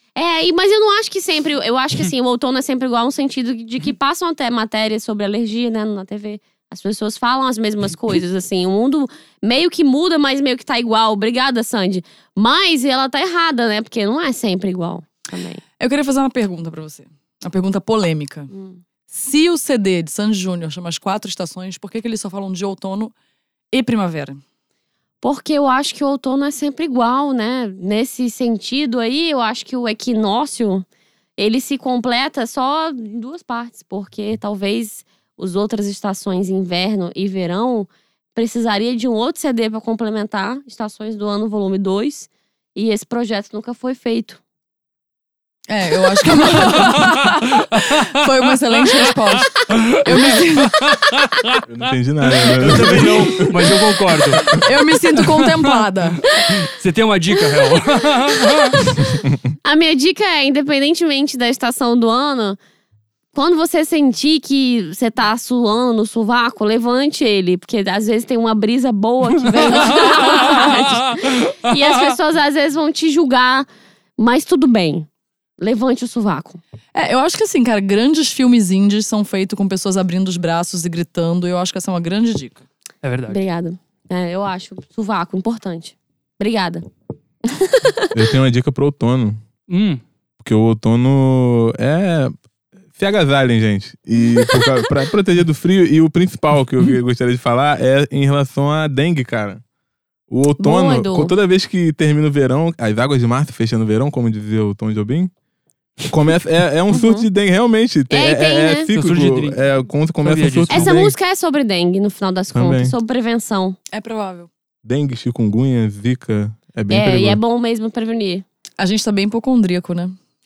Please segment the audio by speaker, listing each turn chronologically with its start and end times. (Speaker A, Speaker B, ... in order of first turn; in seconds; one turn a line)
Speaker A: 0.1-15.6
Speaker B: 15.8-18.5
Speaker A: 18.5-18.8
Speaker B: 19.1-23.1
Speaker B: 23.7-24.4
Speaker A: 25.2-30.8
Speaker A: 31.4-44.4
Speaker B: 45.7-50.9
Speaker C: 48.7-48.9
Speaker C: 49.6-50.3
Speaker D: 51.6-53.6
Speaker C: 52.4-54.5
Speaker B: 52.6-53.5
Speaker B: 54.5-56.2
Speaker C: 55.3-55.8
Speaker C: 56.5-58.8
Speaker A: 59.6-62.6
Speaker A: 63.3-73.7
Speaker B: 69.8-70.6
Speaker C: 70.0-70.8
Speaker A: 74.2-75.1
Speaker A: 75.6-76.6
Speaker B: 76.9-82.6
Speaker C: 83.0-83.4
Speaker A: 83.3-86.8
Speaker A: 87.5-88.1
Speaker D: 88.1-89.4
Speaker C: 89.7-90.0
Speaker D: 90.4-92.3
Speaker D: 92.9-99.6
Speaker D: 100.3-105.3
Speaker A: 100.6-101.3
Speaker D: 106.1-111.1
Speaker A: 106.9-107.2
Speaker A: 108.1-108.9
Speaker C: 108.9-109.6
Speaker C: 110.2-110.9
Speaker A: 110.7-113.8
Speaker D: 112.5-112.9
Speaker B: 113.9-114.5
Speaker D: 114.8-117.4
Speaker A: 116.9-118.4
Speaker B: 118.8-120.2